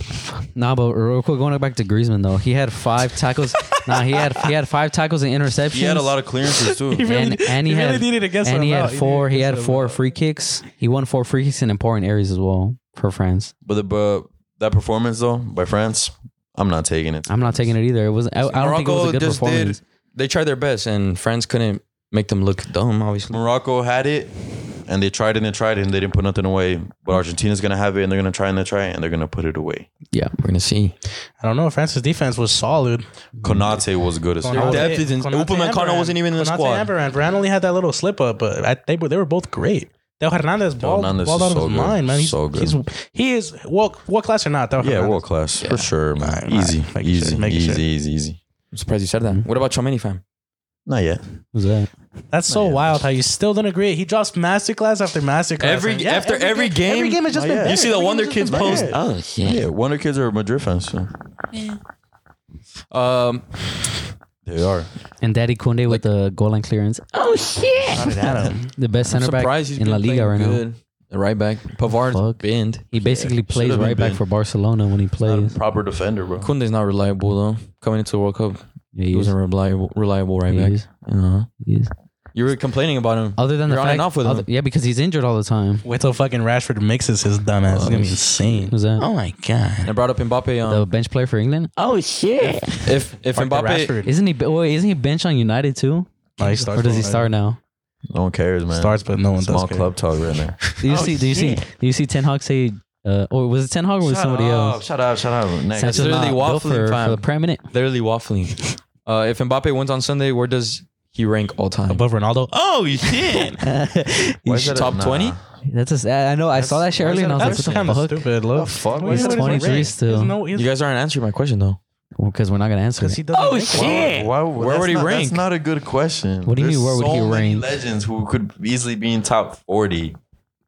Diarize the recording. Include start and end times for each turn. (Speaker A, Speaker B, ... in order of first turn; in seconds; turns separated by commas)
Speaker A: 0.5-6.1, Speaker B: 5.7-7.0, Speaker C: 6.9-10.0, Speaker A: 7.0-13.5, Speaker B: 13.6-17.7, Speaker A: 17.3-19.8, Speaker D: 18.5-23.4, Speaker B: 23.3-24.3, Speaker B: 24.8-29.9, Speaker D: 30.4-30.9, Speaker C: 31.4-33.1, Speaker A: 33.4-33.8, Speaker B: 33.4-35.0, Speaker C: 34.4-45.2, Speaker D: 34.5-36.9, Speaker B: 40.8-42.8, Speaker B: 44.8-48.4, Speaker D: 45.6-45.9, Speaker C: 46.2-47.8, Speaker D: 48.7-50.2, Speaker B: 50.9-51.2, Speaker A: 51.5-51.9, Speaker C: 52.3-59.0, Speaker B: 52.5-53.0, Speaker D: 55.6-59.0, Speaker B: 57.3-57.8, Speaker B: 58.5-61.1, Speaker E: 58.9-59.6, Speaker D: 62.9-63.7, Speaker B: 64.4-64.9, Speaker A: 65.2-67.0, Speaker E: 67.1-68.3, Speaker C: 67.9-68.7, Speaker B: 68.2-68.5, Speaker A: 68.7-70.6, Speaker D: 69.1-72.9, Speaker A: 72.1-75.5, Speaker B: 73.0-74.2, Speaker B: 75.2-76.5, Speaker D: 76.4-81.5, Speaker A: 78.9-79.3, Speaker A: 80.5-80.9, Speaker A: 81.6-81.9, Speaker D: 82.3-84.5, Speaker A: 83.4-85.9, Speaker C: 85.8-89.9, Speaker D: 87.7-88.7, Speaker A: 88.7-89.0, Speaker D: 89.8-90.9, Speaker A: 90.7-91.7, Speaker E: 91.8-92.9, Speaker D: 92.8-93.9, Speaker C: 93.3-94.1, Speaker A: 94.0-97.6, Speaker C: 96.4-97.3, Speaker B: 98.1-100.6, Speaker C: 98.7-99.9, Speaker A: 100.8-104.8, Speaker E: 100.9-101.6, Speaker B: 104.0-106.3, Speaker A: 105.7-107.6, Speaker D: 105.8-112.0, Speaker C: 111.9-113.6, Speaker A: 113.6-114.9, Speaker B: 114.4-115.4, Speaker D: 114.7-115.4, Speaker A: 115.7-118.3, Speaker B: 116.5-118.0, Speaker C: 117.0-120.7, Speaker B: 118.5-119.9, Speaker A: 119.0-120.4, Speaker D: 120.5-121.8, Speaker A: 122.2-123.2, Speaker C: 123.0-124.2, Speaker E: 123.3-124.3, Speaker B: 123.7-130.2, Speaker D: 124.5-125.4, Speaker A: 126.4-127.7